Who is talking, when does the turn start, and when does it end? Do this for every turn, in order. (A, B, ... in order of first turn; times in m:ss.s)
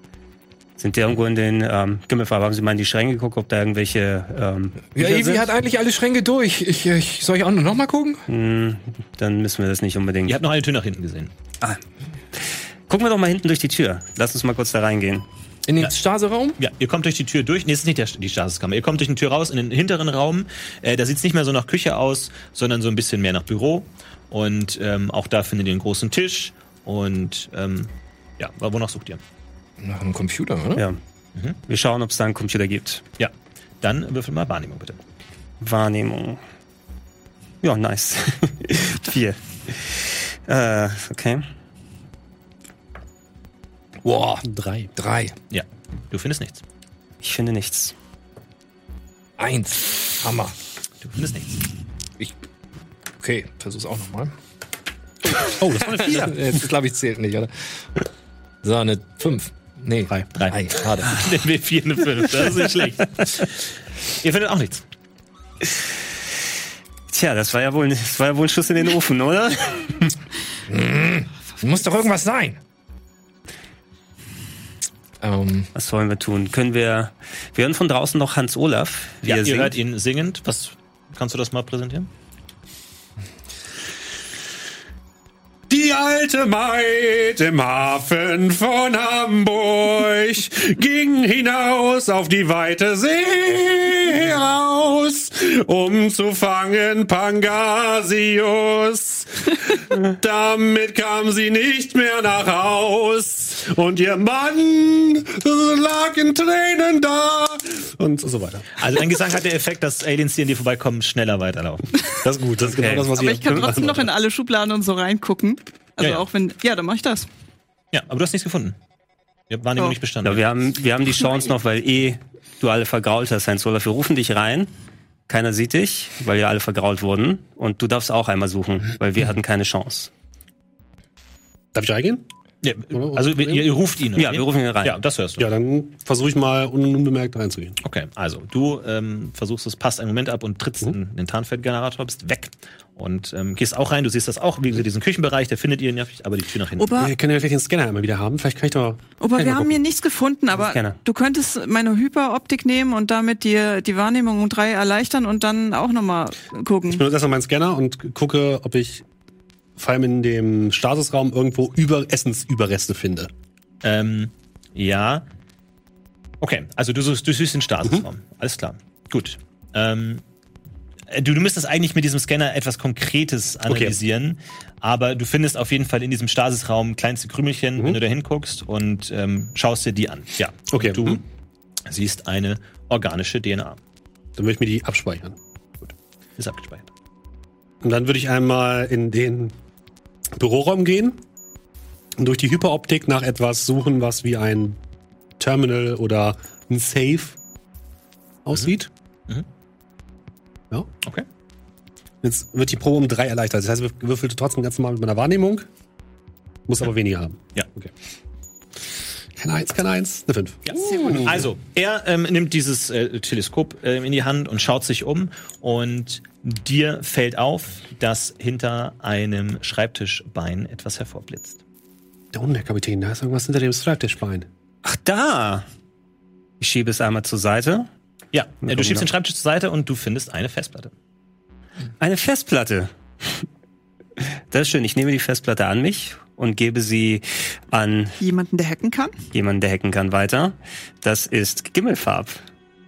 0:00.8-0:05.5 A
0:05.0-0:08.2 B
0:08.3-0:10.4 A
0:10.3-0:11.3 C
0:12.3-0:15.3 A
0:15.7-0:16.6 B
0:16.6-0:29.2 C
0:29.8-0:30.8 B
0:31.7-0:33.0 A
0:33.2-0:35.0 C
0:35.6-0:36.4 A
0:37.6-0:41.5 A
0:44.0-0:44.4 B
0:44.4-0:44.9 D
0:45.0-0:45.4 B
0:45.5-0:46.6 C
0:47.2-0:47.9 A
0:49.4-0:50.6 B
0:51.0-0:51.6 C
0:53.2-0:54.3 B
0:55.3-0:57.8 B
0:55.6-0:56.4 D
0:58.6-1:01.2 B
1:00.4-1:03.6 C
1:04.2-1:04.8 C
1:07.1-1:10.1 A
1:10.7-1:12.6 B
1:15.2-1:15.7 B
1:15.8-1:19.7 A
1:19.2-1:22.1 C
1:25.7-1:48.9 D
1:48.8-1:51.9 C
1:52.2-1:54.1 D
1:52.6-1:53.2 A
1:53.1-1:57.3 E
1:57.9-1:58.8 C
1:59.5-2:00.4 C
2:00.2-2:04.7 A
2:05.3-2:10.1 A
2:11.7-2:12.2 D
2:12.6-2:15.5 C
2:12.9-2:13.7 D
2:14.2-2:15.0 A
2:15.4-2:17.8 D
2:17.8-2:26.9 C
2:26.8-2:27.1 E
2:27.0-2:29.8 D
2:29.2-2:37.0 E
2:30.6-2:31.0 A
2:36.9-2:39.0 D
2:39.8-2:43.3 D
2:43.8-2:45.2 C
2:46.4-2:50.2 C
2:51.1-3:01.2 C
2:53.7-2:54.0 D
3:00.7-3:01.2 D
3:01.9-3:03.8 C
3:04.4-3:05.4 D
3:05.8-3:06.9 C
3:07.8-3:09.5 D
3:10.4-3:11.2 D
3:12.2-3:14.8 D
3:15.4-3:17.4 D
3:18.4-3:18.9 D
3:22.2-3:25.7 D
3:26.7-3:27.9 D
3:29.4-3:31.4 D
3:30.7-3:41.6 C
3:42.3-3:44.5 D
3:44.8-3:45.6 A
3:46.6-3:47.9 A
3:48.3-3:50.9 C
3:48.6-3:49.1 A
3:52.0-3:53.4 A
3:54.2-3:58.2 A
3:58.2-3:59.1 E
3:59.3-4:02.4 A